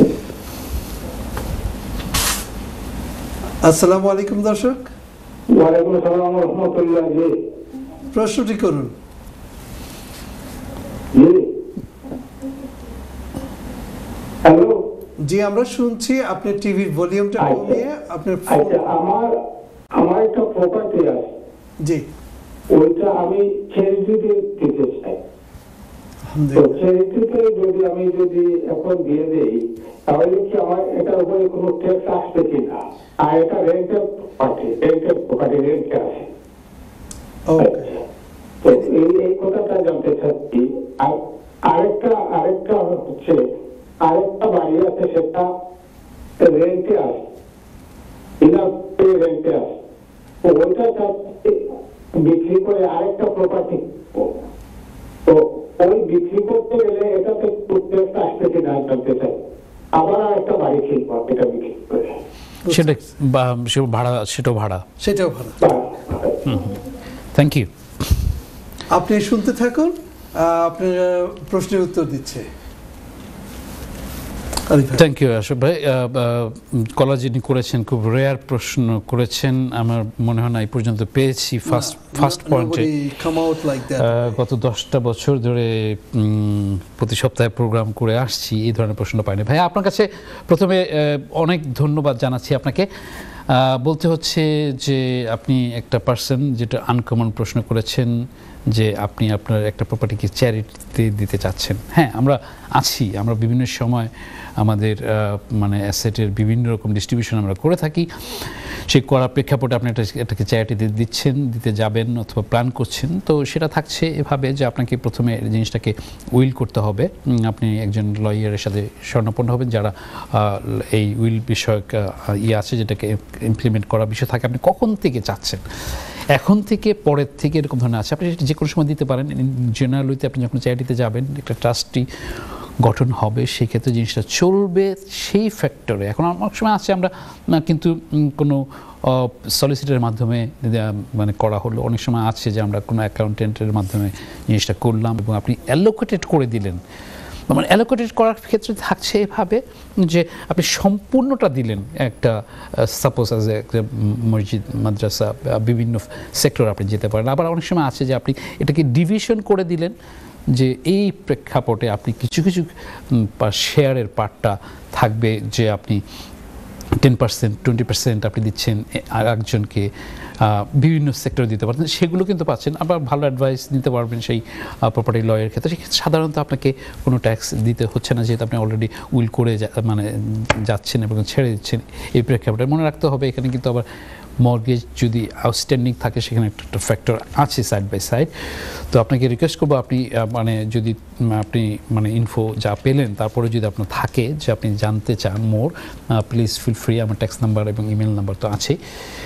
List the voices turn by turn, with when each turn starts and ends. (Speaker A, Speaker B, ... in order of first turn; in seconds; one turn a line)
Speaker A: 3.6-4.9
Speaker B: 5.5-7.4
Speaker A: 8.1-8.9
Speaker B: 11.1-11.5
Speaker B: 14.4-14.8
Speaker A: 15.2-19.0
Speaker B: 17.4-17.8
Speaker B: 18.5-19.3
Speaker B: 19.9-21.3
Speaker B: 22.7-25.2
Speaker A: 26.3-26.8
Speaker B: 26.6-36.3
Speaker A: 37.5-37.9
Speaker B: 37.6-37.9
Speaker B: 38.6-43.4
Speaker B: 44.0-45.5
Speaker B: 46.4-47.2
Speaker B: 48.4-49.8
Speaker B: 50.4-51.6
Speaker B: 52.1-54.3
Speaker B: 55.2-59.4
Speaker B: 59.9-62.2
Speaker A: 62.6-63.0
Speaker C: 62.7-64.8
Speaker A: 65.0-65.7
Speaker B: 65.6-66.5
Speaker C: 66.4-66.8
Speaker C: 67.3-68.2
Speaker A: 68.9-72.5
Speaker A: 74.7-75.1
Speaker C: 75.0-82.9
Speaker A: 81.7-84.4
Speaker C: 84.0-92.9
Speaker C: 93.5-98.1
Speaker C: 98.7-125.6
Speaker C: 126.3-132.1
Speaker C: 132.8-146.8
Speaker C: 147.5-159.9
Speaker C: 160.5-166.0
Speaker C: 167.0-169.9
Speaker C: 170.4-183.9
Speaker C: 184.4-188.3
Speaker C: 188.9-198.8